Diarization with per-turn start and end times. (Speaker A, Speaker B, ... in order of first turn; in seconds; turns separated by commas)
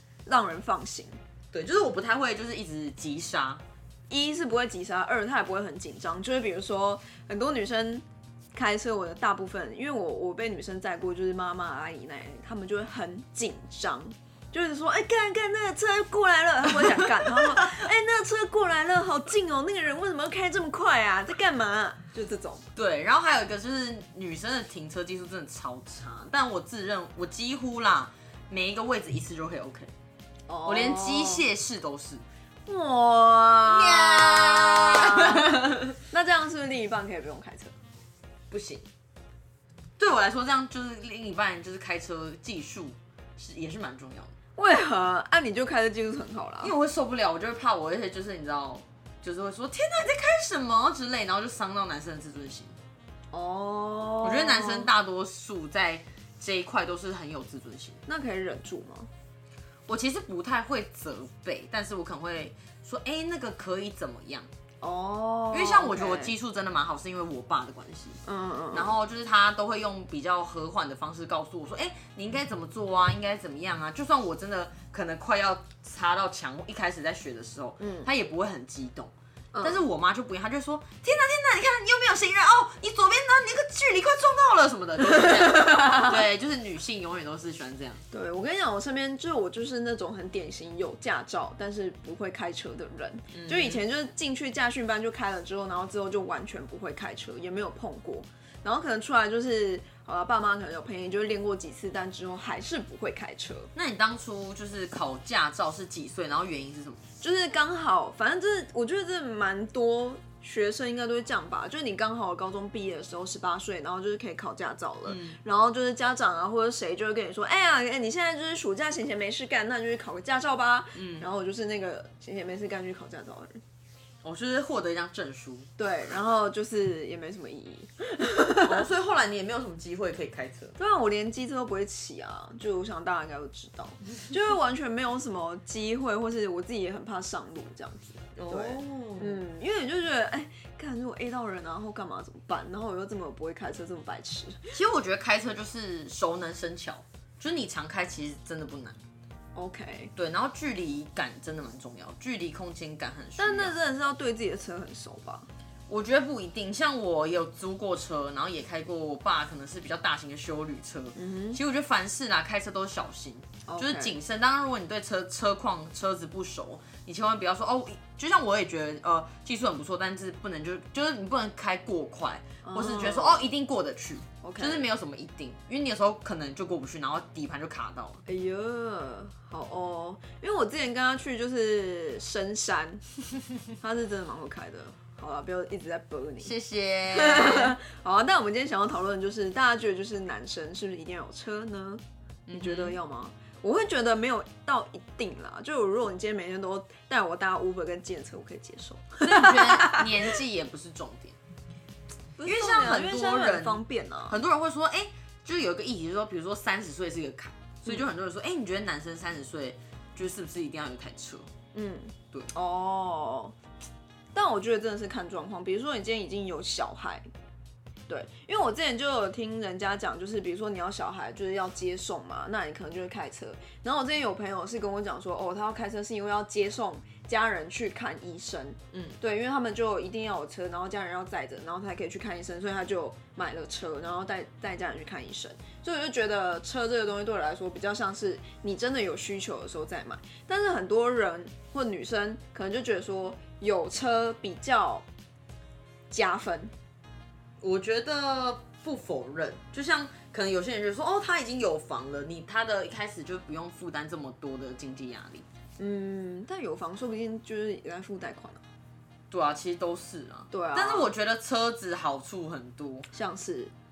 Speaker A: 0.2-1.2, Speaker B: 1.5-3.6, Speaker A: 4.1-22.6, Speaker B: 17.2-17.5, Speaker B: 22.8-29.9, Speaker A: 30.5-31.5, Speaker B: 30.6-32.2, Speaker A: 32.7-37.8, Speaker B: 33.6-35.9, Speaker B: 38.5-38.9, Speaker B: 40.0-44.3, Speaker A: 44.6-46.7, Speaker B: 46.6-52.8, Speaker A: 53.3-54.9, Speaker B: 54.2-58.0, Speaker A: 58.1-59.1, Speaker B: 59.9-64.5, Speaker A: 64.8-66.3, Speaker B: 65.5-68.2, Speaker A: 68.3-68.9, Speaker B: 68.7-88.0, Speaker A: 77.8-78.1, Speaker A: 79.5-79.8, Speaker A: 85.2-86.2, Speaker A: 88.1-103.7, Speaker B: 93.3-93.8, Speaker B: 103.8-107.0, Speaker A: 107.2-123.6, Speaker B: 115.1-115.4, Speaker B: 121.0-121.3, Speaker B: 124.2-125.7, Speaker A: 125.8-128.8, Speaker B: 128.6-130.8, Speaker A: 130.8-144.7, Speaker B: 138.4-139.4, Speaker B: 144.7-149.0, Speaker A: 149.6-150.1, Speaker B: 150.2-153.8, Speaker A: 153.4-155.5, Speaker B: 155.9-178.2, Speaker A: 161.2-161.6, Speaker A: 163.7-164.2, Speaker A: 172.6-173.5, Speaker A: 174.4-174.8, Speaker A: 178.3-183.1, Speaker A: 183.8-186.5, Speaker B: 186.4-187.8, Speaker A: 187.1-192.0, Speaker B: 192.5-193.0, Speaker A: 192.5-200.3, Speaker B: 199.2-201.4, Speaker A: 202.4-204.4, Speaker B: 202.4-211.5, Speaker A: 211.7-213.6, Speaker A: 214.3-217.3, Speaker A: 218.1-245.1, Speaker B: 228.9-229.2, Speaker A: 246.1-246.7, Speaker B: 247.6-255.4, Speaker A: 255.8-258.6, Speaker B: 259.3-263.1, Speaker A: 260.5-261.1, Speaker A: 263.1-263.7